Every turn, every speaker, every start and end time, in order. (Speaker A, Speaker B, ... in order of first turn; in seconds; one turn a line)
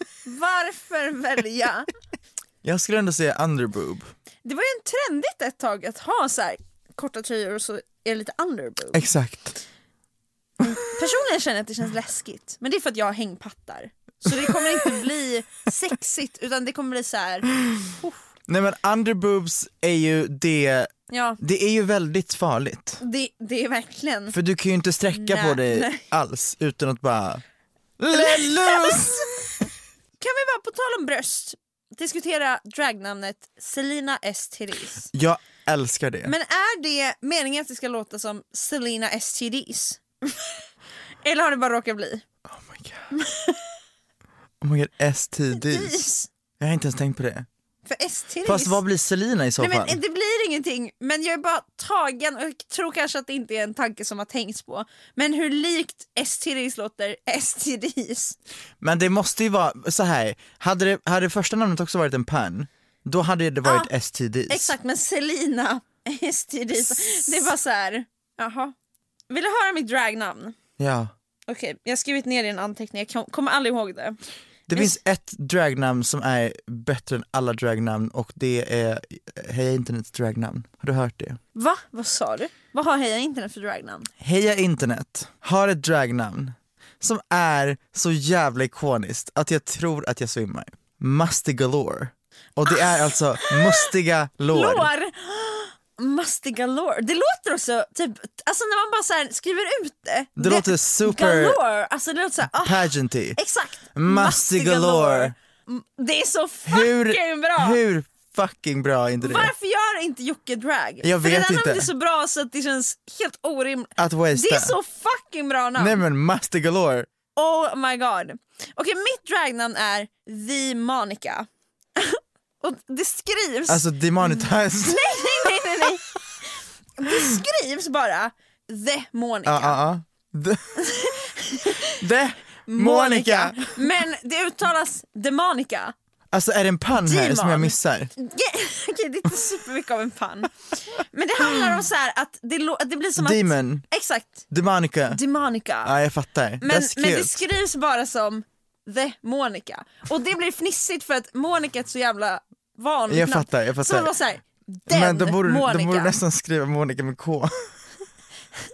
Speaker A: 0.2-1.9
Speaker B: 2.6-4.1
Speaker A: 4.4-9.0
Speaker B: 8.9-9.6
Speaker A: 10.6-18.2
Speaker B: 14.3-14.6
Speaker B: 18.5-23.0
Speaker A: 21.1-21.4
Speaker A: 23.0-24.4
Speaker B: 24.3-27.4
Speaker A: 25.1-26.0
Speaker B: 28.0-29.6
Speaker A: 28.1-29.3
Speaker A: 30.2-35.1
Speaker B: 35.1-36.3
Speaker A: 36.2-40.6
Speaker A: 41.2-42.2
Speaker B: 42.5-43.0
Speaker A: 43.1-43.5
Speaker B: 44.6-46.0
Speaker A: 45.5-46.3
Speaker B: 46.6-47.5
Speaker A: 47.9-48.8
Speaker B: 48.4-50.0
Speaker A: 49.6-58.4
Speaker B: 58.8-64.7
Speaker A: 63.6-63.9
Speaker A: 64.5-68.7
Speaker A: 69.3-70.5
Speaker B: 70.8-71.1
Speaker A: 71.5-74.2
Speaker B: 74.7-81.4
Speaker A: 81.5-84.1
Speaker B: 84.2-94.9
Speaker A: 92.7-93.9
Speaker A: 94.5-107.8
Speaker B: 100.4-101.6
Speaker B: 102.6-103.4
Speaker B: 103.9-105.3
Speaker B: 106.7-109.5
Speaker A: 109.2-116.0
Speaker B: 111.0-111.8
Speaker B: 114.0-114.7
Speaker B: 115.8-117.1
Speaker A: 117.3-129.8
Speaker B: 123.7-125.4
Speaker B: 129.5-131.1
Speaker A: 130.8-131.9
Speaker B: 131.8-133.9
Speaker A: 132.7-135.9
Speaker B: 136.3-138.1
Speaker A: 137.0-144.4
Speaker B: 143.2-143.8
Speaker B: 144.5-145.2
Speaker A: 145.1-145.9
Speaker B: 145.8-147.4
Speaker A: 146.6-156.2
Speaker B: 153.1-154.1
Speaker B: 154.9-157.7